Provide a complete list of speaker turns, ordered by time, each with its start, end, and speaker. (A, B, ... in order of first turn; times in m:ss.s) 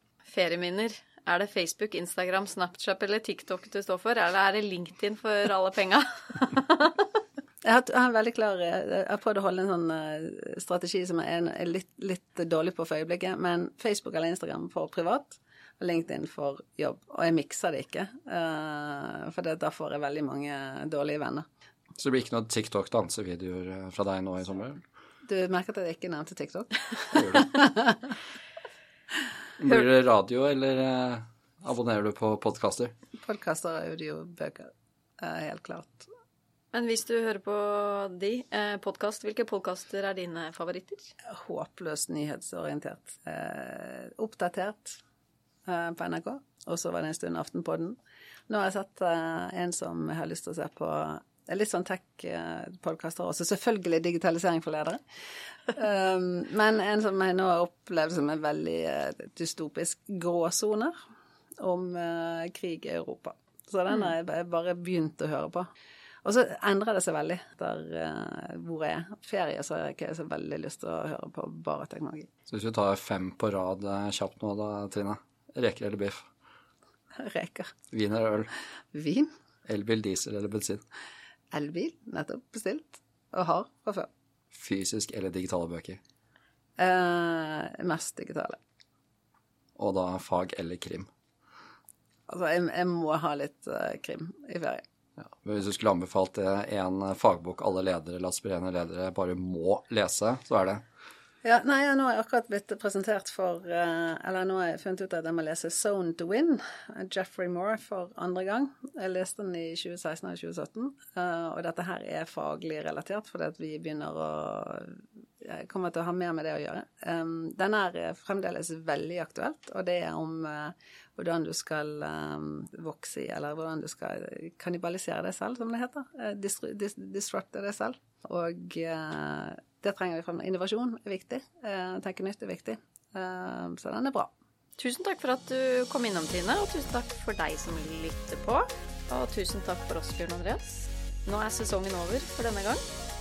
0:00.3-0:07.0 A
0:07.6-0:21.5 B
0:22.0-0:24.8 C
0:25.3-0:28.0 B
0:27.1-0:27.5 C
0:29.6-0:32.9 C
0:33.2-0:36.1 B
0:36.7-0:41.1 A
0:41.2-0:45.0 B
0:45.7-0:48.0 B
0:48.5-0:55.0 B
0:55.7-1:01.0 B
1:01.6-1:05.7 B
1:06.2-1:12.3 B
1:12.5-1:16.3 C
1:17.2-1:17.8 B
1:17.9-1:18.5 C
1:18.9-1:19.3 B
1:19.6-1:20.8 C
1:21.5-1:24.1 B
1:24.5-1:26.0 C
1:26.8-1:28.6 B
1:29.8-1:31.1 C
1:32.3-1:34.8 B
1:35.2-1:40.8 C
1:41.4-2:14.3 B
2:14.8-2:22.8 A